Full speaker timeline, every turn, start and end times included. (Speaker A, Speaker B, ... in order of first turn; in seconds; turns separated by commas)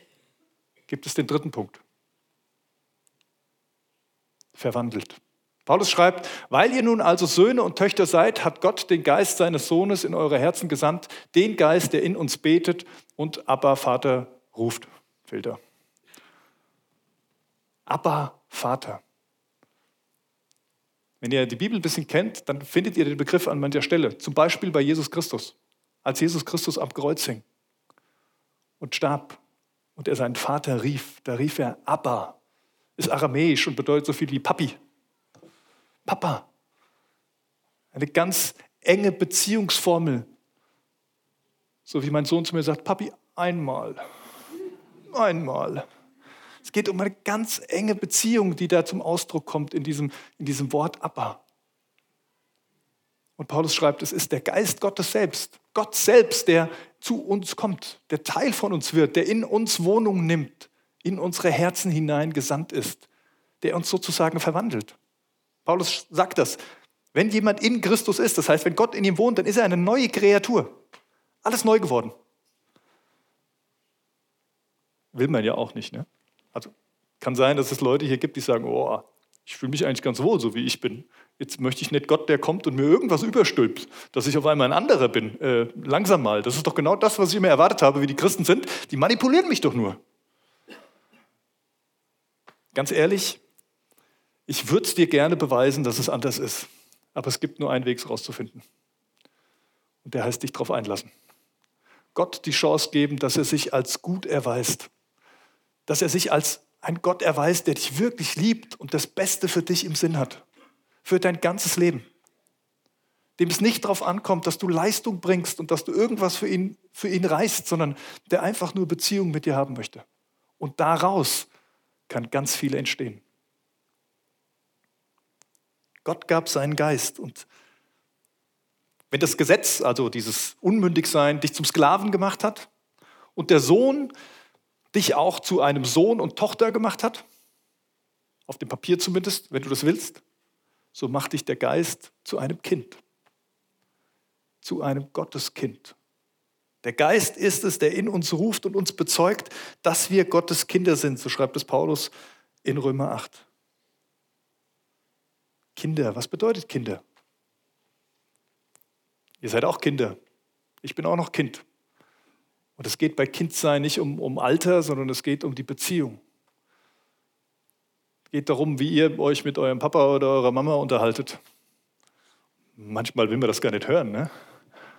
Speaker A: 0.9-1.8, Speaker A: 4.5-15.6, Speaker A: 17.9-19.0, Speaker A: 21.2-27.4, Speaker A: 28.8-29.4, Speaker A: 29.9-32.4, Speaker A: 33.0-34.8, Speaker A: 36.0-36.5, Speaker A: 37.9-40.3, Speaker A: 41.9-44.0, Speaker A: 45.1-45.9, Speaker A: 46.6-51.4, Speaker A: 53.4-63.0, Speaker A: 63.6-65.0, Speaker A: 65.6-66.6, Speaker A: 67.1-70.8, Speaker A: 71.4-72.1, Speaker A: 75.1-90.0, Speaker A: 92.7-93.4, Speaker A: 94.5-98.6, Speaker A: 100.0-101.1, Speaker A: 102.1-104.9, Speaker A: 105.9-110.4, Speaker A: 111.0-112.0, Speaker A: 113.4-120.0, Speaker A: 120.6-121.5, Speaker A: 122.1-123.2, Speaker A: 126.0-127.5, Speaker A: 129.1-132.7, Speaker A: 133.3-134.1, Speaker A: 134.9-137.2, Speaker A: 138.5-140.2, Speaker A: 140.9-143.0, Speaker A: 144.6-145.9, Speaker A: 146.8-152.1, Speaker A: 152.6-153.4, Speaker A: 155.7-157.0, Speaker A: 159.4-160.2, Speaker A: 160.8-161.6, Speaker A: 162.8-166.2, Speaker A: 168.3-171.4, Speaker A: 172.8-174.3